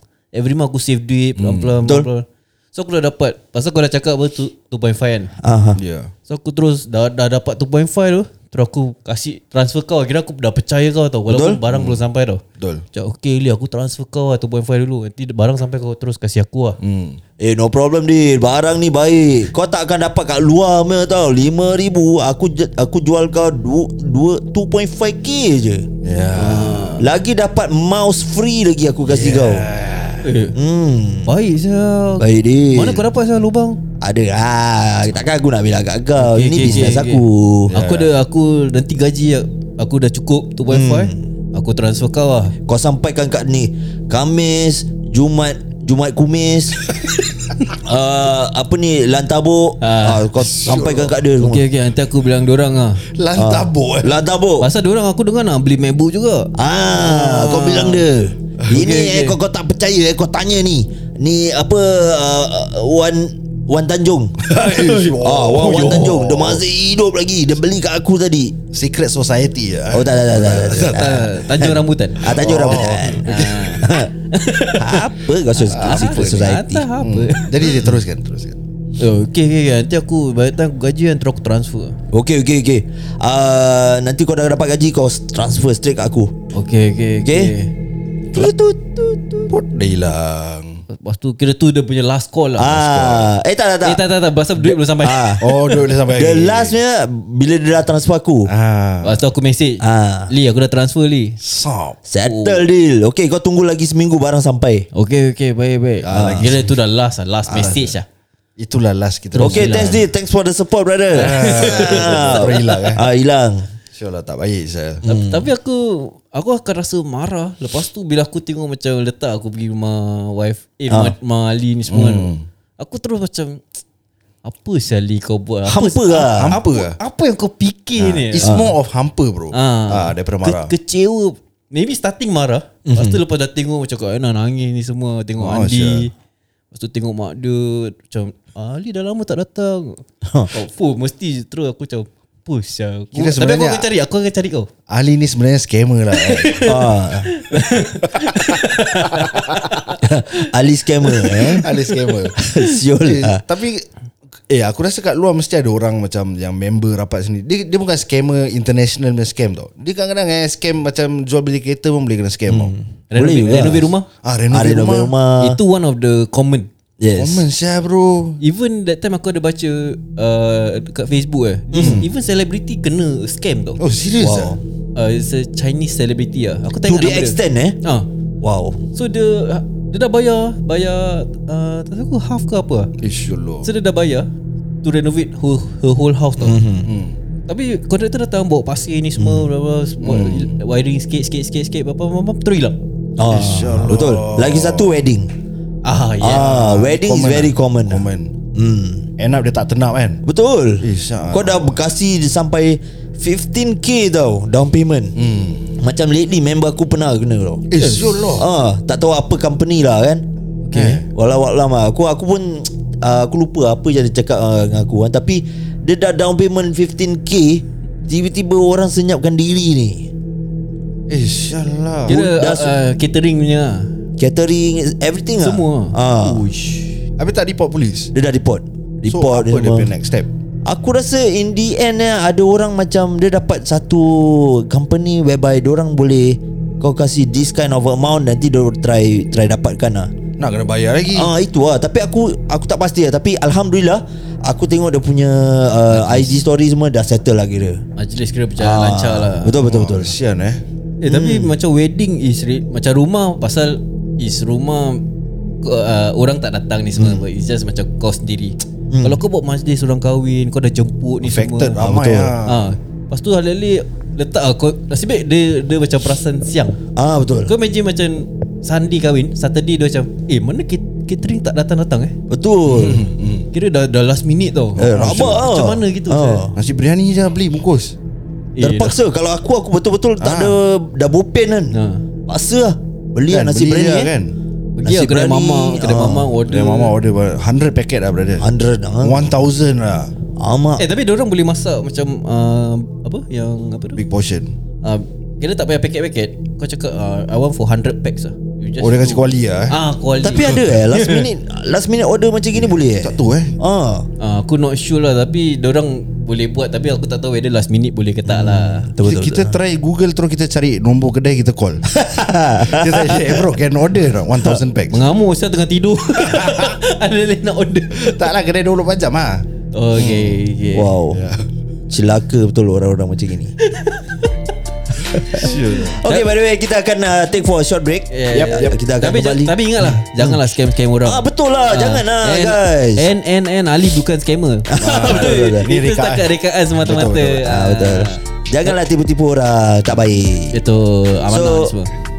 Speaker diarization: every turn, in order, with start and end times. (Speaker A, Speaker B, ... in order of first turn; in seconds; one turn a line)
Speaker A: 0.3-5.3
Speaker B: 1.4-1.8
Speaker C: 1.8-2.1
Speaker C: 5.4-5.8
Speaker B: 5.8-6.1
Speaker A: 6.3-12.4
Speaker C: 11.3-11.6
Speaker B: 11.7-12.0
Speaker B: 12.6-12.8
Speaker A: 12.9-16.8
Speaker B: 16.8-17.2
Speaker C: 17.4-25.9
Speaker B: 26.0-27.0
Speaker A: 26.4-27.0
Speaker C: 27.0-29.7
Speaker B: 29.1-30.2
Speaker A: 30.2-30.5
Speaker C: 30.5-31.3
Speaker A: 31.2-33.8
Speaker C: 32.2-33.0
Speaker C: 34.0-37.7
Speaker A: 36.2-42.5
Speaker B: 37.7-38.1
Speaker C: 40.7-41.2
Speaker C: 42.6-46.8
Speaker C: 47.8-51.6
Speaker A: 49.8-50.2
Speaker B: 50.4-51.1
Speaker A: 51.4-53.0
Speaker B: 53.1-54.1
Speaker C: 53.3-54.7
Speaker A: 54.6-58.0
Speaker C: 56.5-64.4
Speaker A: 58.7-59.4
Speaker B: 64.4-66.6
Speaker A: 64.5-65.2
Speaker C: 65.2-68.5
Speaker B: 68.7-71.3
Speaker C: 69.9-74.1
Speaker A: 70.8-77.8
Speaker B: 72.2-73.6
Speaker C: 74.8-76.8
Speaker B: 75.7-78.6
Speaker A: 79.0-82.0
Speaker C: 82.1-86.3
Speaker A: 86.5-87.7
Speaker C: 87.2-87.5
Speaker C: 88.3-89.5
Speaker B: 89.5-90.8
Speaker A: 90.9-92.9
Speaker C: 92.6-94.0
Speaker B: 92.8-93.3
Speaker A: 93.8-95.7
Speaker C: 94.6-95.4
Speaker B: 95.4-96.8
Speaker C: 96.1-98.5
Speaker B: 98.5-99.2
Speaker A: 99.0-101.4
Speaker C: 99.8-100.3
Speaker B: 101.4-102.0
Speaker C: 102.0-104.9
Speaker A: 102.2-102.6
Speaker A: 104.9-108.0
Speaker B: 106.0-106.7
Speaker C: 106.1-106.5
Speaker B: 107.5-107.9
Speaker B: 108.6-110.0
Speaker A: 109.3-110.0
Speaker C: 109.4-113.7
Speaker B: 111.1-113.1
Speaker A: 111.2-112.7
Speaker B: 113.9-115.0
Speaker C: 115.0-115.5
Speaker A: 115.0-123.6
Speaker C: 120.9-121.1
Speaker B: 121.9-122.4
Speaker A: 124.4-128.5
Speaker C: 125.7-126.5
Speaker B: 126.2-127.0
Speaker B: 128.0-130.7
Speaker C: 128.4-128.8
Speaker A: 129.5-136.1
Speaker C: 132.8-133.2
Speaker B: 135.4-136.1
Speaker A: 136.7-144.7
Speaker C: 140.2-140.5
Speaker B: 143.1-143.9
Speaker B: 144.9-146.7
Speaker A: 146.1-150.4
Speaker C: 146.6-147.3
Speaker B: 148.2-148.6
Speaker B: 149.1-149.5
Speaker C: 150.0-151.7
Speaker A: 151.0-151.6
Speaker B: 151.6-153.8
Speaker C: 152.4-153.4
Speaker B: 154.5-162.7
Speaker C: 162.5-163.9
Speaker A: 163.1-164.1
Speaker B: 164.2-165.1
Speaker C: 164.5-165.6
Speaker A: 165.4-166.7
Speaker C: 167.0-167.4
Speaker B: 167.2-168.4
Speaker A: 168.4-173.8
Speaker C: 171.7-172.1
Speaker B: 171.8-172.1
Speaker B: 173.8-174.6
Speaker C: 174.2-174.6
Speaker A: 174.9-178.1
Speaker C: 176.8-177.8
Speaker C: 178.4-178.8
Speaker A: 178.9-182.9
Speaker B: 183.0-183.7
Speaker A: 183.6-184.3
Speaker A: 184.8-186.6
Speaker C: 186.4-186.9
Speaker B: 186.8-187.2
Speaker A: 187.5-192.8
Speaker C: 189.2-189.4
Speaker B: 190.0-190.5
Speaker C: 193.2-195.3
Speaker B: 193.3-195.0
Speaker A: 195.8-196.7
Speaker C: 196.2-199.1
Speaker B: 196.3-198.3
Speaker B: 199.2-200.2
Speaker C: 200.2-205.1
Speaker B: 200.8-201.8
Speaker B: 205.2-205.7
Speaker C: 205.8-210.2
Speaker B: 207.7-208.5
Speaker A: 210.7-211.0
Speaker B: 210.7-211.1
Speaker C: 211.0-220.1
Speaker B: 221.1-222.2
Speaker A: 222.1-223.9
Speaker C: 222.1-222.7
Speaker C: 224.2-226.4
Speaker A: 225.4-227.0
Speaker B: 227.2-228.1
Speaker C: 228.1-229.9
Speaker B: 229.1-230.3
Speaker C: 230.6-240.1
Speaker B: 240.4-241.3
Speaker C: 241.1-247.8
Speaker A: 245.9-246.4
Speaker A: 248.0-249.5
Speaker C: 248.6-250.1
Speaker B: 249.6-250.6
Speaker A: 251.0-255.0
Speaker C: 251.0-251.6
Speaker A: 255.6-261.8
Speaker C: 256.9-257.2
Speaker C: 258.9-259.2
Speaker B: 261.2-262.7
Speaker C: 261.8-262.3
Speaker A: 262.4-266.8
Speaker C: 266.9-267.5
Speaker A: 267.4-272.1
Speaker C: 272.3-273.1
Speaker B: 272.6-273.5
Speaker A: 273.5-276.4
Speaker B: 274.8-275.5
Speaker C: 274.8-276.5
Speaker B: 276.5-277.9
Speaker A: 278.6-278.9
Speaker C: 278.6-281.8
Speaker B: 280.2-280.6
Speaker A: 281.7-282.0
Speaker C: 282.3-284.1
Speaker B: 283.3-284.3
Speaker A: 284.8-286.9
Speaker C: 284.8-286.3
Speaker B: 286.4-288.5
Speaker C: 288.4-289.3
Speaker B: 289.0-290.1
Speaker C: 290.4-290.8
Speaker A: 290.8-294.0
Speaker B: 294.0-294.5
Speaker A: 294.8-301.2
Speaker B: 298.8-299.7
Speaker C: 300.2-304.1
Speaker B: 302.5-303.5
Speaker A: 304.2-308.9
Speaker C: 308.2-309.6
Speaker B: 309.0-311.9
Speaker C: 311.9-313.5
Speaker B: 312.6-315.0
Speaker A: 314.9-318.2
Speaker B: 316.2-316.8
Speaker B: 317.9-319.4
Speaker A: 319.7-320.9
Speaker B: 319.9-320.4
Speaker C: 320.7-321.2
Speaker B: 321.1-321.4
Speaker C: 321.9-323.5
Speaker A: 323.7-324.0
Speaker C: 325.1-330.4
Speaker B: 325.3-326.0
Speaker A: 325.3-326.3
Speaker A: 328.1-338.2
Speaker B: 328.3-328.8
Speaker C: 331.0-333.1
Speaker C: 334.7-335.7
Speaker B: 334.8-337.4
Speaker C: 337.4-340.6
Speaker A: 340.5-341.9
Speaker C: 341.3-341.7